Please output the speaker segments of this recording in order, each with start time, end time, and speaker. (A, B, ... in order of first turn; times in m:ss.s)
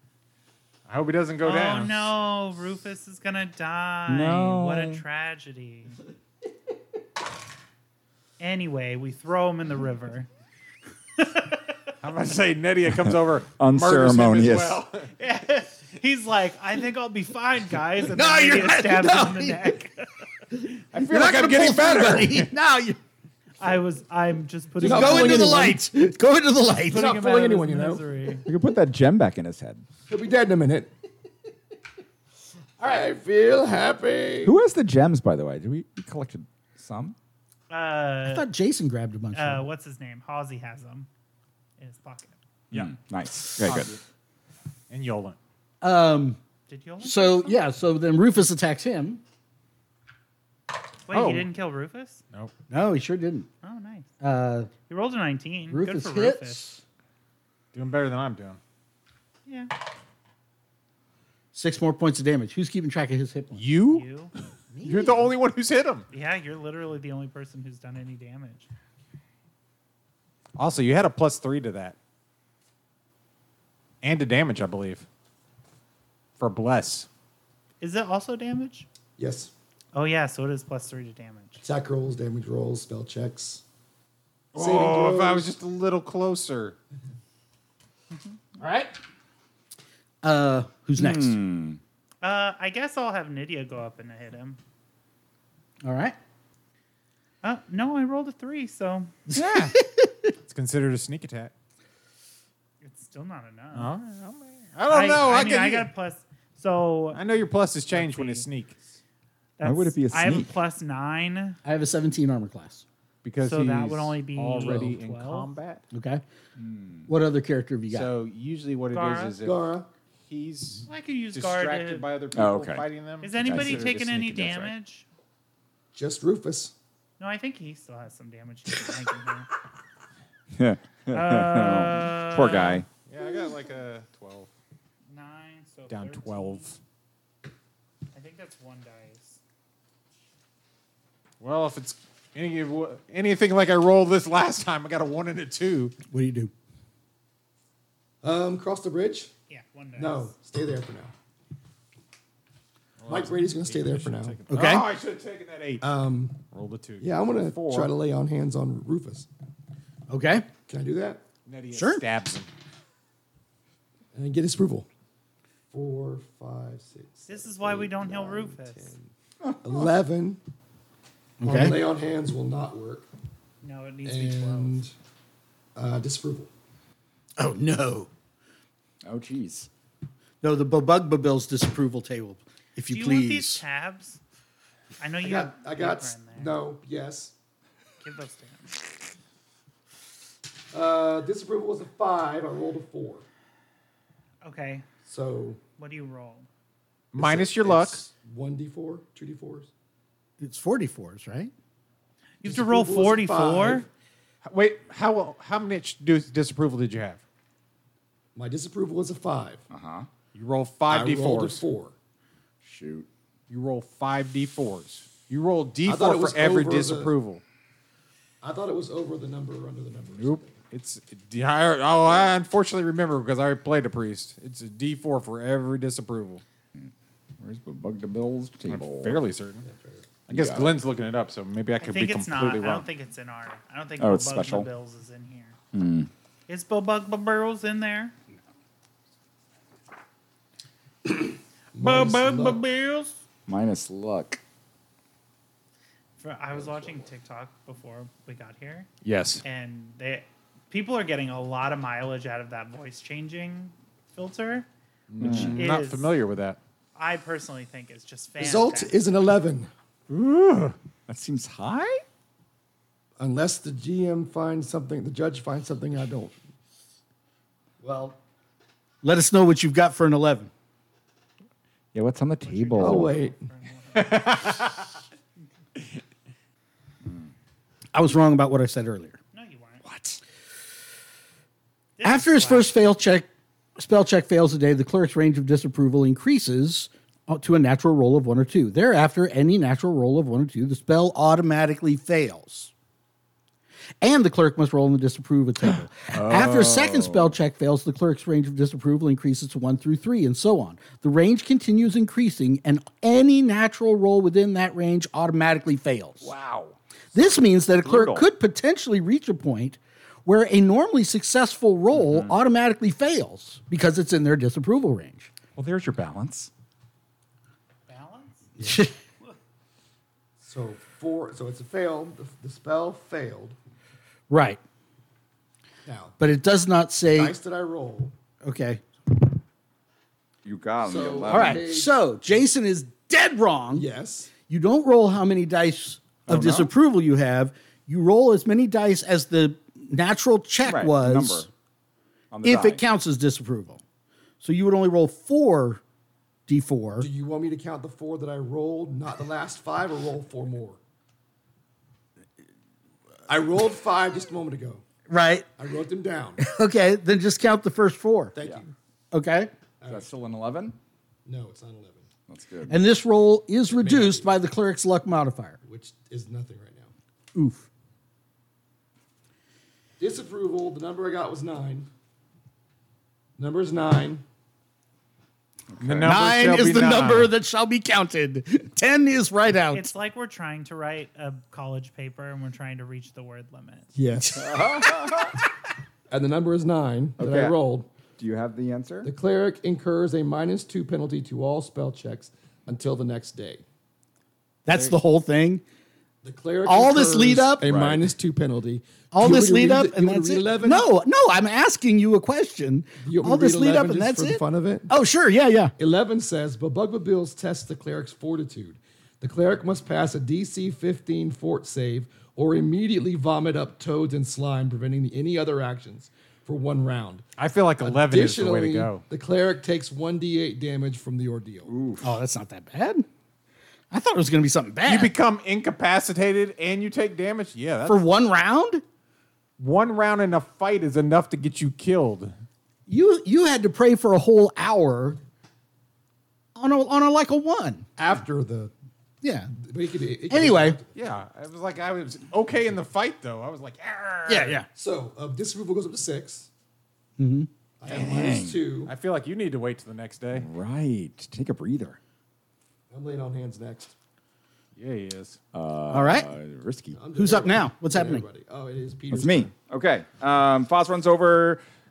0:00.9-0:02.1 A
0:01.4-0:06.0 B
0:04.1-0:05.0 C
0:08.4-0:10.3 B
0:11.2-0:11.8 B
0:12.0-0:15.1 A
0:13.1-0:14.8 C
0:15.2-0:20.8 B
0:18.0-0:19.8 D
0:20.9-0:22.5 A
0:21.0-0:23.0 D
0:23.6-0:25.7 B
0:24.8-0:27.1 D
0:24.8-0:25.9 E
0:26.9-0:28.4 B
0:26.9-0:28.1 E
0:28.4-0:29.8 C
0:30.1-0:30.9 E
0:32.8-0:33.1 D
0:32.8-0:34.6 E
0:34.4-0:37.2 C
0:37.7-0:38.5 B
0:38.2-0:39.6 D
0:39.3-0:41.1 B
0:41.8-0:42.4 B
0:42.7-0:43.9 C
0:43.6-0:44.0 A
0:44.9-0:45.4 A
0:45.8-0:46.4 D
0:46.7-0:47.6 B
0:47.0-0:49.2 D
0:51.1-0:52.2 B
0:51.1-0:51.5 A
0:52.7-0:53.5 D
0:53.6-0:54.1 B
0:54.2-0:54.7 D
0:54.9-0:56.7 B
0:55.7-0:56.8 D
0:57.7-0:58.6 A
0:59.4-0:59.7 B
1:01.5-1:03.6 D
1:03.5-1:04.0 A
1:03.9-1:04.3 B
1:04.7-1:05.3 D
1:04.8-1:06.1 A
1:06.1-1:08.7 B
1:10.6-1:12.0 A
1:14.0-1:15.0 A
1:16.4-1:17.1 A
1:17.8-1:18.9 B
1:19.2-1:19.5 E
1:19.9-1:21.6 B
1:21.6-1:23.6 E
1:24.5-1:25.5 E
1:24.5-1:26.8 A
1:28.6-1:28.9 D
1:30.2-1:31.4 D
1:31.0-1:31.8 C
1:32.2-1:34.6 B
1:35.8-1:36.2 D
1:37.4-1:39.1 B
1:39.3-1:40.3 D
1:39.3-1:39.7 A
1:40.4-1:41.5 A
1:42.8-1:43.9 B
1:43.7-1:45.9 A
1:44.9-1:47.2 B
1:47.1-1:48.8 A
1:47.9-1:48.5 B
1:49.6-1:51.6 B
1:49.6-1:50.5 C
1:51.6-1:52.8 D
1:53.2-1:55.8 A
1:53.4-1:55.5 B
1:55.9-1:56.2 D
1:56.6-1:57.1 C
1:57.1-1:58.1 D
1:57.9-1:59.7 A
1:58.9-1:59.4 B
1:59.4-1:59.9 E
2:00.3-2:04.7 A
2:00.9-2:02.1 B
2:02.3-2:02.8 C
2:03.2-2:05.0 B
2:03.4-2:04.0 C
2:05.9-2:06.7 E
2:07.2-2:09.5 B
2:10.5-2:12.9 C
2:11.1-2:12.8 B
2:13.0-2:14.5 A
2:15.1-2:16.8 B
2:15.9-2:16.8 A
2:18.1-2:19.4 B
2:21.4-2:25.9 A
2:26.1-2:26.5 D
2:28.2-2:29.3 E
2:29.5-2:30.3 B
2:30.0-2:31.1 E
2:33.0-2:35.8 A
2:33.1-2:34.4 E
2:34.5-2:34.9 D
2:35.8-2:36.4 E
2:36.5-2:37.9 A
2:37.0-2:39.3 E
2:40.1-2:40.5 D
2:40.7-2:41.2 E
2:41.4-2:42.5 A
2:41.7-2:42.0 D
2:44.1-2:44.9 E
2:45.7-2:49.1 E
2:47.2-2:48.9 B
2:49.4-2:49.9 C
2:49.6-2:50.4 E
2:51.4-2:51.8 D
2:51.4-2:53.1 E
2:53.6-2:54.8 B
2:54.0-2:54.9 E
2:55.7-2:56.5 E
2:57.4-2:58.1 D
2:59.0-2:59.7 C
3:00.4-3:03.6 D
3:02.9-3:04.2 B
3:05.0-3:06.6 B
3:05.2-3:07.3 E
3:08.0-3:08.8 B
3:10.7-3:13.2 E
3:14.4-3:14.8 B
3:15.0-3:15.6 E
3:15.8-3:16.5 B
3:17.1-3:18.0 A
3:17.1-3:19.7 E
3:20.4-3:21.5 D
3:22.4-3:23.9 B
3:22.4-3:23.9 E
3:24.4-3:27.2 A
3:28.3-3:29.6 E
3:29.7-3:30.1 C
3:30.3-3:31.6 A
3:30.9-3:31.9 E
3:32.6-3:33.1 C
3:33.5-3:37.4 A
3:35.8-3:37.1 E
3:38.4-3:40.6 E
3:40.2-3:46.4 A
3:46.8-3:49.2 C
3:48.7-3:49.6 A
3:49.6-3:50.1 E
3:50.3-3:52.9 A
3:50.3-3:50.8 C
3:51.8-3:55.6 B
3:54.0-3:54.7 C
3:55.7-3:56.1 C
3:56.5-3:58.1 B
4:01.7-4:02.6 E
4:01.9-4:02.2 A
4:02.2-4:03.1 B
4:03.5-4:04.4 C
4:06.2-4:08.9 B
4:09.0-4:09.4 A
4:09.4-4:14.7 B
4:15.1-4:16.6 A
4:15.2-4:15.6 C
4:15.5-4:16.1 B
4:16.9-4:18.9 B
4:18.4-4:19.7 E
4:20.1-4:20.8 A
4:21.1-4:22.0 C
4:23.2-4:26.3 E
4:27.8-4:28.1 D
4:29.0-4:30.5 D
4:31.9-4:33.1 C
4:32.4-4:34.6 B
4:32.8-4:33.4 E
4:33.9-4:34.9 A
4:37.9-4:39.2 D
4:39.3-4:39.8 B
4:39.8-4:40.2 C
4:42.0-4:42.8 B
4:42.0-4:52.7 D
4:54.0-5:06.3 D
4:55.7-4:57.4 C
5:06.2-5:08.3 C
5:07.1-5:15.3 D
5:12.0-5:12.4 C
5:15.6-5:16.5 C
5:17.9-5:18.5 B
5:18.6-5:18.9 D
5:20.4-5:23.6 E
5:24.3-5:24.6 D
5:25.8-5:26.2 E
5:26.2-5:27.3 D
5:27.1-5:28.2 E
5:28.4-5:28.8 D
5:30.4-5:31.7 C
5:30.8-5:31.9 E
5:31.3-5:41.5 D
5:33.7-5:34.3 E
5:36.3-5:36.7 C
5:40.6-5:41.5 C
5:42.3-5:42.8 C
5:42.4-5:43.8 D
5:44.4-5:45.8 D
5:46.5-5:47.1 D
5:47.0-5:50.8 E
5:53.3-5:54.8 E
5:55.1-5:55.5 D
5:55.6-5:56.4 E
5:56.4-5:58.3 D
5:58.3-5:58.7 E
5:59.1-5:59.5 D
5:59.8-6:00.1 E
5:59.8-6:00.8 C
6:01.2-6:02.1 E
6:02.3-6:02.8 C
6:02.7-6:05.6 D
6:03.7-6:04.4 E
6:05.6-6:06.9 E
6:07.3-6:07.7 D
6:10.0-6:11.9 E
6:13.4-6:14.2 E
6:15.7-6:16.2 C
6:15.8-6:17.3 A
6:16.0-6:19.9 D
6:19.7-6:23.9 B
6:23.9-6:24.8 E
6:24.3-6:25.4 C
6:26.1-6:27.9 E
6:27.2-6:27.6 C
6:28.2-6:29.1 C
6:29.0-6:33.6 E
6:34.6-6:35.6 D
6:36.2-6:40.9 E
6:36.6-6:37.7 D
6:37.6-6:38.1 C
6:39.1-6:45.7 D
6:43.0-6:44.9 E
6:45.8-6:57.2 E
6:57.4-6:59.0 A
6:57.8-7:01.7 E
7:01.6-7:02.2 C
7:02.0-7:03.0 D
7:03.9-7:05.1 D
7:04.8-7:08.0 A
7:07.9-7:08.8 D
7:09.6-7:12.3 A
7:12.9-7:15.2 D
7:16.6-7:17.9 D
7:18.0-7:18.7 E
7:19.2-7:19.5 D
7:19.5-7:20.9 E
7:20.3-7:20.8 D
7:20.9-7:24.6 A
7:24.3-7:24.7 D
7:24.7-7:26.5 E
7:27.2-7:27.5 D
7:27.8-7:28.9 E
7:27.9-7:28.6 C
7:28.8-7:30.5 A
7:30.3-7:32.0 C
7:32.9-7:33.9 E
7:34.8-7:35.4 A
7:35.5-7:37.0 C
7:35.9-7:36.3 D
7:36.9-7:39.5 E
7:37.2-7:38.2 D
7:39.1-7:41.6 C